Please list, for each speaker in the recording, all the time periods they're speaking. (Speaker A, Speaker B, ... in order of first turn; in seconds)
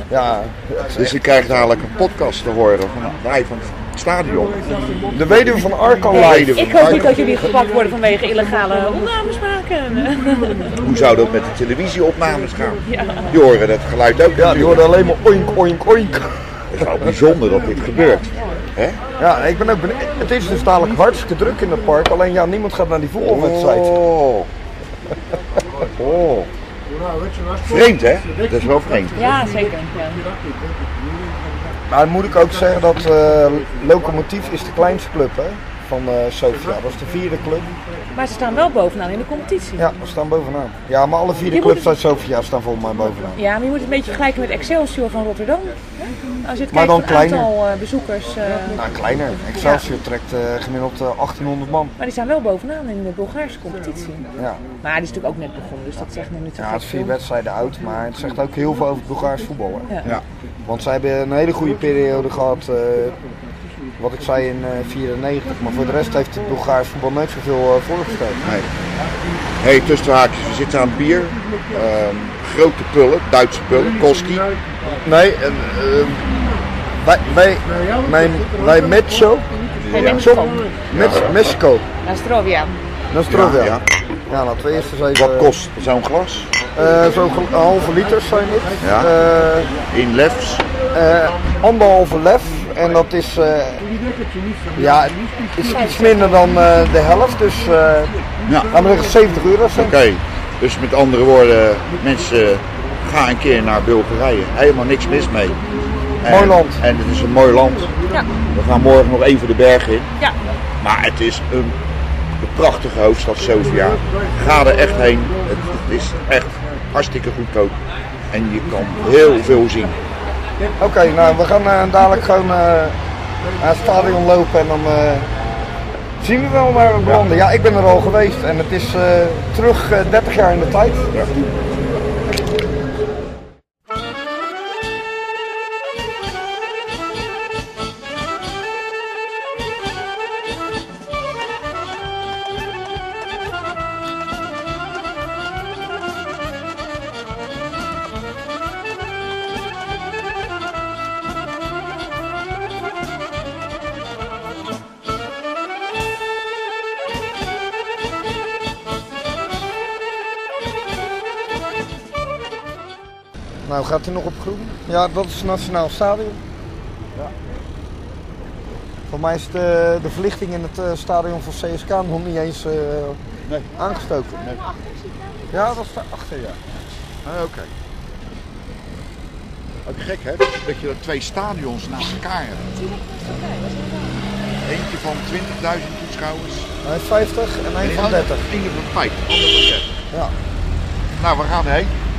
Speaker A: 0.1-1.2, 5.1-7.0, 14.4-17.1, 19.2-24.0, 31.9-37.7, 39.8-43.4, 46.7-47.5, 48.7-51.9, 54.4-54.6, 56.6-59.9, 60.6-63.2, 64.0-68.5, 75.0-76.2, 77.0-81.8, 83.1-85.5, 86.8-89.7, 90.9-93.9, 94.8-100.0, 106.2-106.8, 120.8-123.0, 123.6-125.3, 126.2-131.1, 163.6-166.4, 169.1-173.2, 173.8-174.4, 175.5-176.6, 186.8-188.4
Speaker B: 0.9-5.5, 6.1-7.3, 10.8-15.0, 16.7-19.0, 23.2-24.5, 25.9-26.5, 27.6-29.3, 68.4-68.7, 69.6-74.5, 79.9-80.2, 80.9-81.5, 83.3-83.9, 85.1-86.5, 88.8-89.1, 89.9-90.6, 98.5-98.8, 99.7-105.6, 106.2-107.9, 108.5-110.1, 110.8-111.8, 112.4-117.8, 118.3-120.0, 173.4-173.7, 174.3-174.6, 177.2-177.7, 179.8-182.7, 184.6-186.7, 187.8-190.0, 191.2-191.9
Speaker C: 6.1-10.7, 12.9-13.3, 29.1-30.2, 38.1-39.9, 41.5-41.9, 43.4-45.8, 46.4-48.9, 49.5-49.9, 52.0-54.3, 54.8-57.2, 79.9-80.7, 82.0-82.8, 95.6-96.4, 173.8-175.8, 182.7-184.4